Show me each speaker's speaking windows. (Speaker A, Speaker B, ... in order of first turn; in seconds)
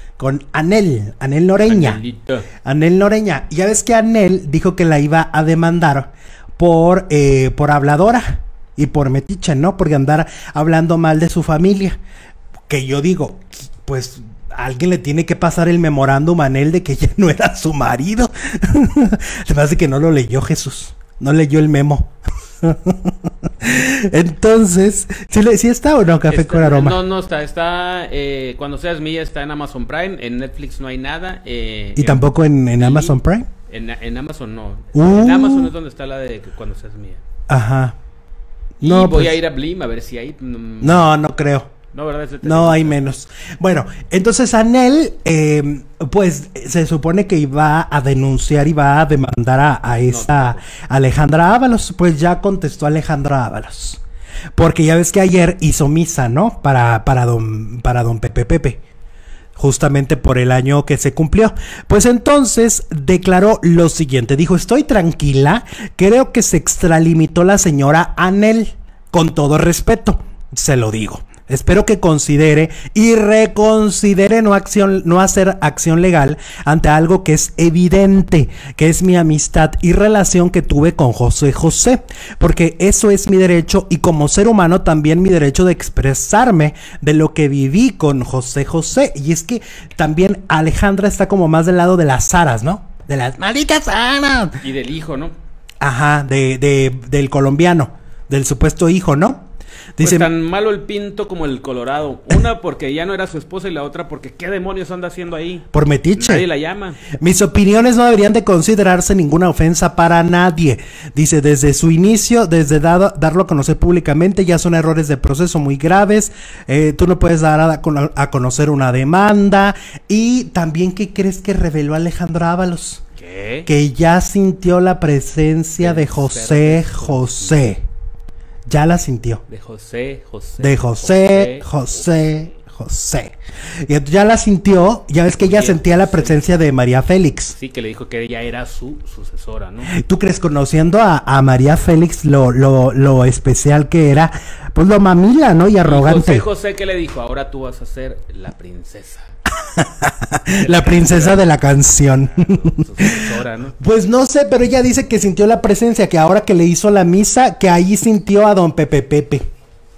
Speaker A: 0.2-2.0, 2.6-12.0, 12.7-22.1, 22.6-27.0, 31.9-33.5, 34.9-35.7, 37.5-37.9, 38.8-39.4, 40.8-41.7, 42.4-54.0, 54.5-58.8, 59.6-94.6, 95.8-99.4, 100.0-100.3, 105.7-106.5, 107.2-123.0, 123.7-127.8, 128.7-129.4, 130.6-133.3, 133.8-137.6, 139.9-146.5, 149.6-159.4
Speaker B: 1.6-2.5, 26.3-33.2, 33.7-37.2, 38.8-41.1, 41.9-43.0, 50.0-50.7, 94.6-95.3, 100.0-107.0, 123.2-123.7, 125.8-127.7, 129.5-131.7, 135.3-136.5, 137.6-139.9, 145.8-149.3, 150.6-153.8